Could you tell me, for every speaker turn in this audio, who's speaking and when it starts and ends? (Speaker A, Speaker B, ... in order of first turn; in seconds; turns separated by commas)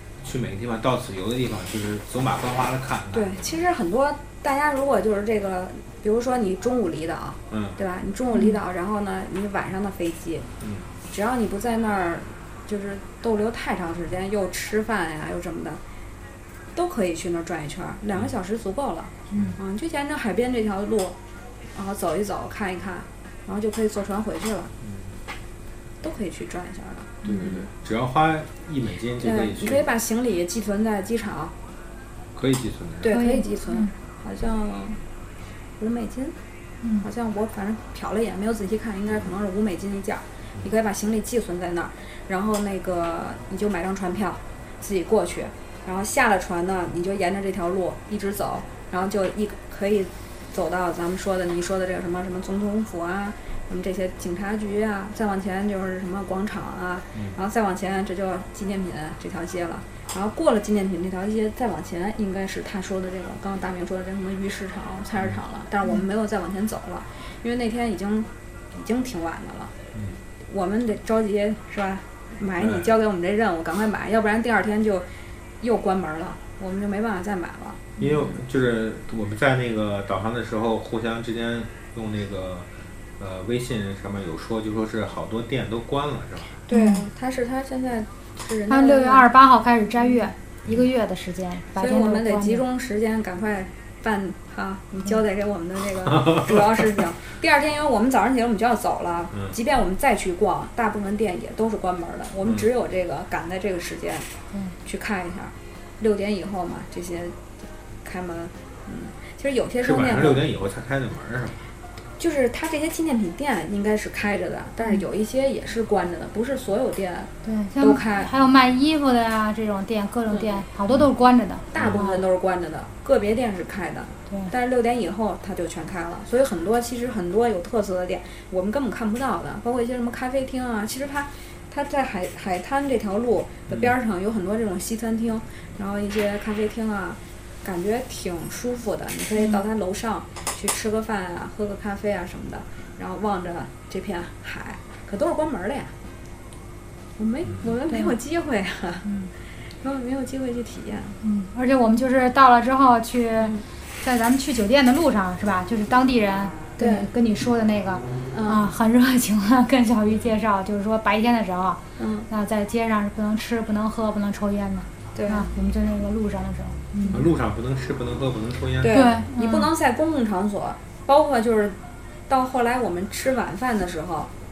Speaker A: 0.2-3.6, Speaker B: 3.1-10.5, Speaker A: 7.5-7.8, Speaker A: 10.6-10.9, Speaker B: 11.1-15.8, Speaker B: 16.7-21.2, Speaker A: 19.3-19.6, Speaker B: 21.7-24.7, Speaker A: 24.8-25.1, Speaker B: 26.0-27.7, Speaker A: 27.2-29.9, Speaker B: 29.2-31.5, Speaker A: 32.3-33.2, Speaker B: 33.0-35.0, Speaker C: 33.1-33.9, Speaker B: 35.8-36.3, Speaker B: 37.0-69.7, Speaker A: 57.1-57.4, Speaker A: 69.9-70.2, Speaker B: 70.5-75.0, Speaker A: 72.6-72.9, Speaker B: 75.6-78.3, Speaker A: 78.0-86.5, Speaker B: 86.6-89.3, Speaker C: 86.7-87.0, Speaker C: 88.7-92.6, Speaker B: 91.7-104.3, Speaker A: 96.2-96.5, Speaker B: 104.8-107.4, Speaker B: 108.0-110.5, Speaker A: 109.8-111.6, Speaker B: 112.2-118.3, Speaker C: 117.4-122.2, Speaker B: 120.3-120.6, Speaker B: 121.7-145.9, Speaker A: 121.7-122.0, Speaker B: 147.2-149.1, Speaker B: 149.8-151.2, Speaker C: 151.2-167.2, Speaker B: 156.8-157.1, Speaker B: 158.3-158.7, Speaker B: 162.0-162.3, Speaker B: 165.1-165.5, Speaker A: 167.1-169.0, Speaker B: 168.8-171.8, Speaker C: 168.9-169.7, Speaker B: 172.3-174.3